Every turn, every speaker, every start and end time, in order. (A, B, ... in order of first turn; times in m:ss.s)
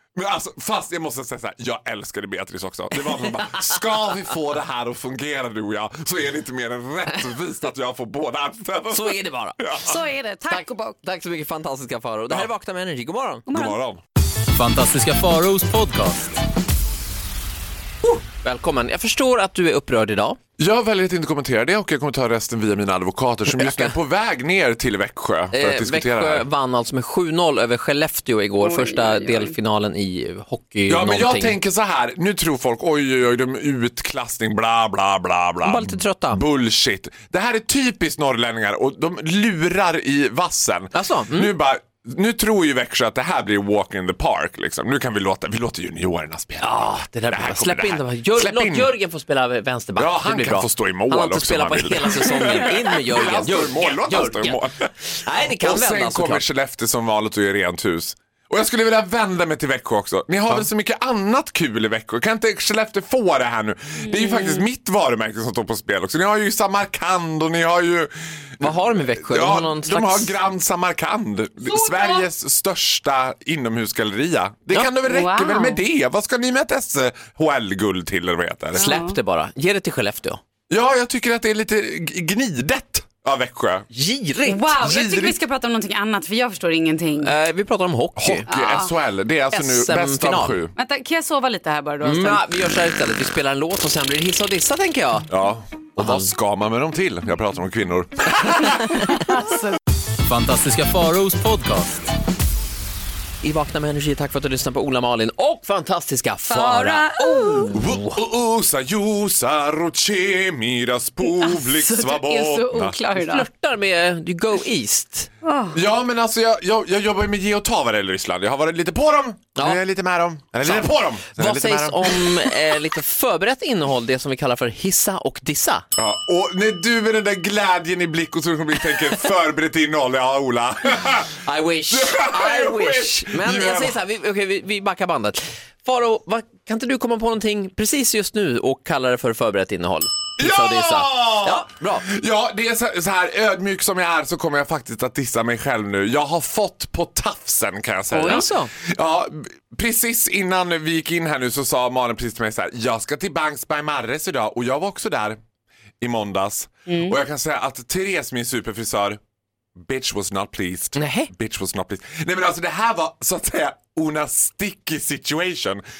0:00.1-0:10.0 A
0:08.9-0:09.6 B
0:09.8-0:11.0 C
0:10.5-0:13.4 B
0:13.5-0:13.8 C
0:13.5-0:14.0 A
0:14.5-0:16.4 D
0:18.0-0:20.4 B
0:20.6-0:26.5 A
0:23.5-0:24.0 B
0:25.5-0:31.6 B
0:28.6-0:29.5 C
0:30.9-0:48.9 A
0:35.6-0:36.4 B
0:40.9-0:41.5 B
0:46.6-0:56.4 B
0:50.0-1:18.9 A
1:04.0-1:04.6 C
1:08.6-1:10.4 B
1:11.6-1:12.3 C
1:15.0-1:15.8 C
1:18.7-1:20.4 B
1:18.8-1:19.2 C
1:20.7-1:23.9 A
1:23.9-1:24.8 B
1:24.4-1:27.3 C
1:24.8-1:25.4 A
1:27.2-1:28.4 B
1:28.2-1:30.7 A
1:28.5-1:28.9 C
1:29.5-1:30.6 B
1:30.8-1:32.4 C
1:32.0-1:35.3 B
1:35.3-1:38.9 A
1:36.0-1:36.3 B
1:38.4-1:39.1 B
1:39.2-1:39.8 C
1:40.2-1:42.1 D
1:43.4-1:48.2 B
1:46.5-1:47.7 C
1:47.7-1:53.0 A
1:51.2-1:53.5 C
1:53.1-1:55.3 B
1:55.4-1:55.8 C
1:55.7-2:02.8 A
1:59.6-1:59.8 B
2:00.6-2:05.9 B
2:06.0-2:14.0 A
2:11.4-2:22.1 B
2:20.4-2:35.4 A
2:28.1-2:28.7 B
2:36.0-2:39.2 A
2:36.9-2:37.2 C
2:39.8-2:45.8 A
2:41.0-2:41.3 B